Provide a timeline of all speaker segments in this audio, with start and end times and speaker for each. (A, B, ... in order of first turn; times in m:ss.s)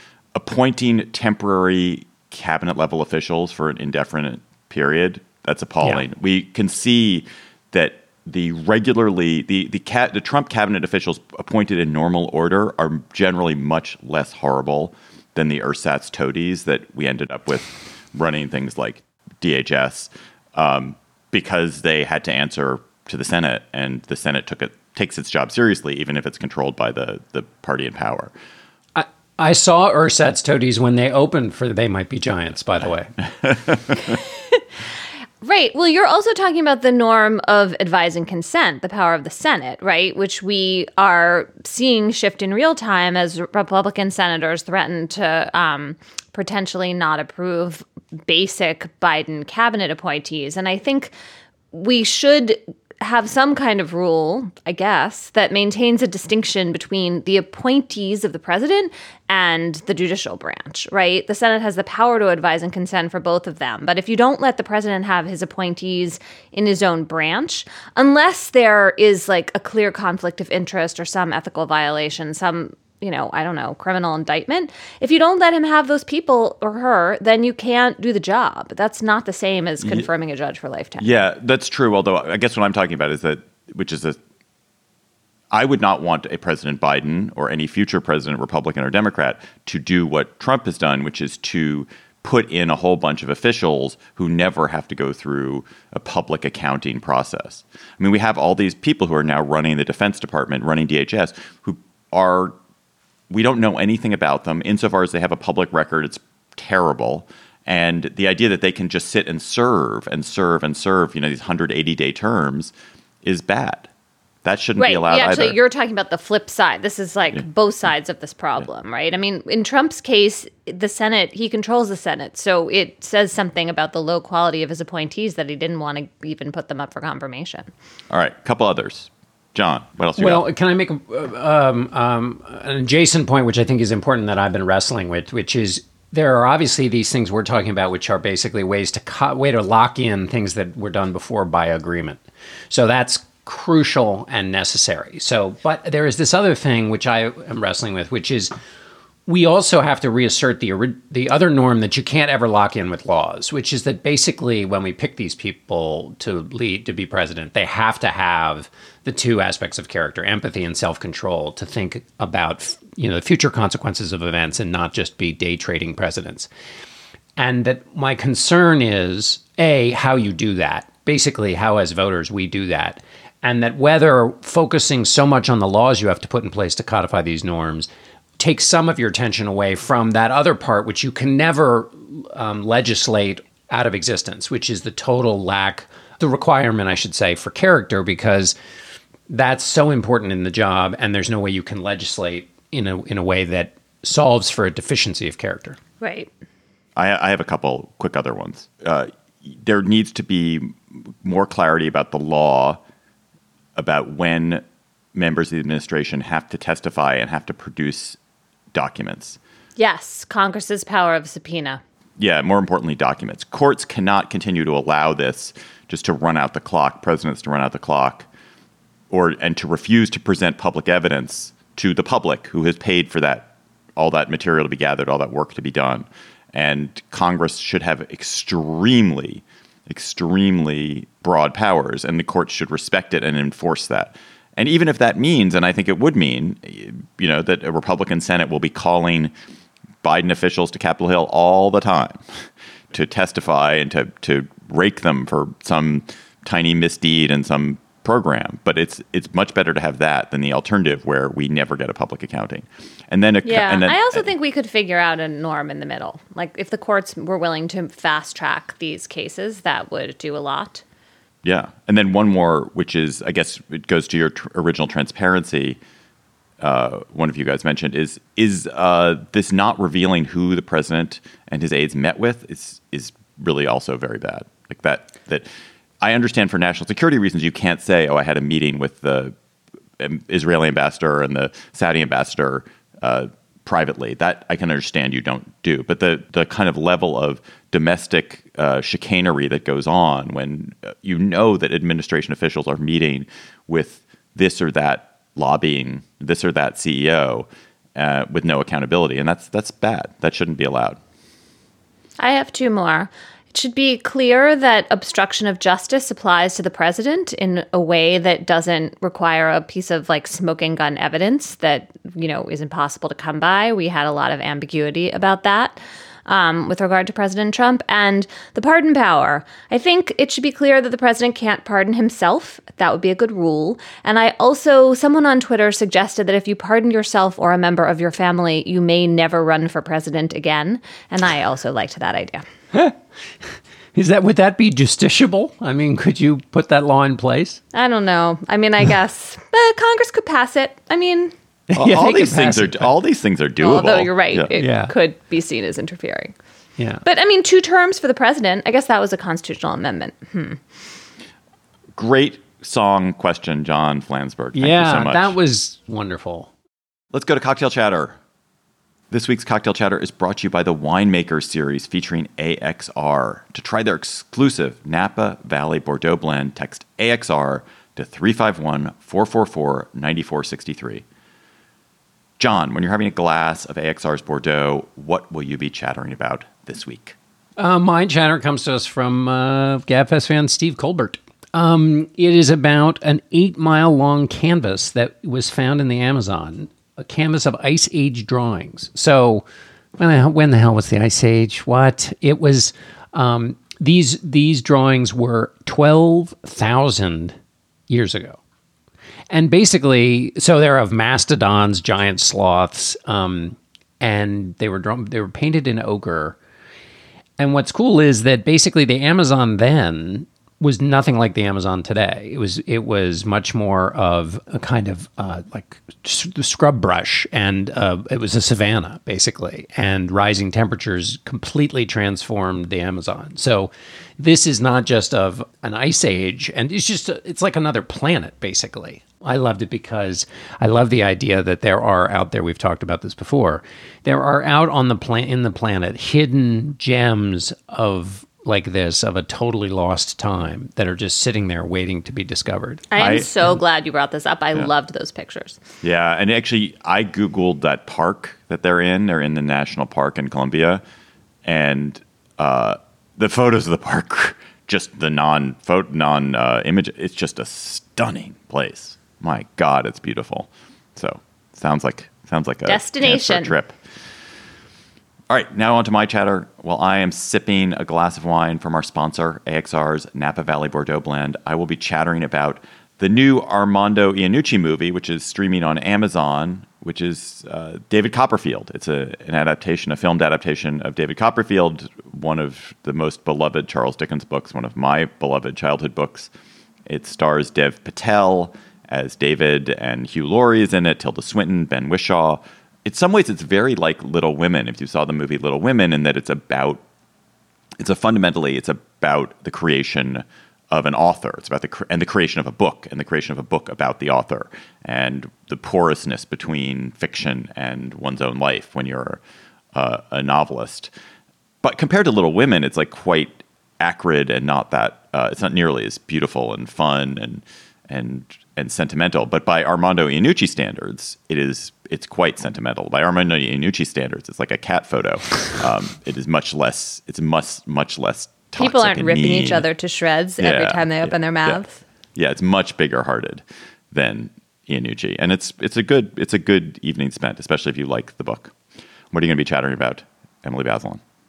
0:00.3-0:28.3 A
0:28.9-0:33.1 B
0:33.4-0:34.0 A
0:35.4-0:51.1 C
0:51.7-1:21.1 C
1:21.0-1:24.2 A
1:25.5-1:42.6 A
1:43.3-1:53.9 A
1:54.4-1:55.6 A
1:54.8-2:07.7 C
2:08.1-2:10.4 A
2:10.2-2:28.5 B
2:29.2-2:46.5 B
2:47.4-3:08.6 B
3:09.3-3:15.8 B
3:16.0-3:16.3 C
3:17.0-3:22.8 A
3:23.8-3:24.6 A
3:25.1-3:28.2 A
3:28.7-3:29.4 A
3:29.8-3:31.8 C
3:32.2-3:38.3 A
3:39.1-3:59.3 A
4:00.0-4:14.3 A
4:13.4-4:20.8 C
4:21.4-4:25.8 A
4:26.6-4:35.5 A
4:36.0-4:39.3 A
4:40.0-5:01.0 A
5:02.2-5:32.4 C
5:33.9-5:37.6 B
5:37.7-5:41.3 C
5:41.7-5:42.9 B
5:41.8-5:44.5 A
5:43.6-5:46.3 C
5:44.5-5:44.9 B
5:46.8-5:47.0 B
5:47.0-5:50.6 C
5:51.9-5:55.3 A
5:54.5-5:56.5 B
5:57.1-5:58.2 A
5:59.1-6:11.0 A
6:12.4-6:17.2 A
6:17.6-6:29.4 B
6:30.0-6:37.3 B
6:37.9-6:38.4 B
6:39.3-6:46.4 B
6:47.4-7:22.9 B
7:22.9-7:25.6 C
7:23.0-7:23.3 A
7:25.8-7:30.8 A
7:31.4-7:43.8 A
7:42.6-7:43.5 C
7:45.3-8:06.3 A
8:06.9-8:16.8 A
8:17.8-8:29.2 A
8:29.7-8:30.9 A
8:31.6-8:49.6 A
8:48.6-8:51.8 C
8:50.4-8:51.6 A
8:52.1-8:58.5 A
8:59.1-9:01.0 A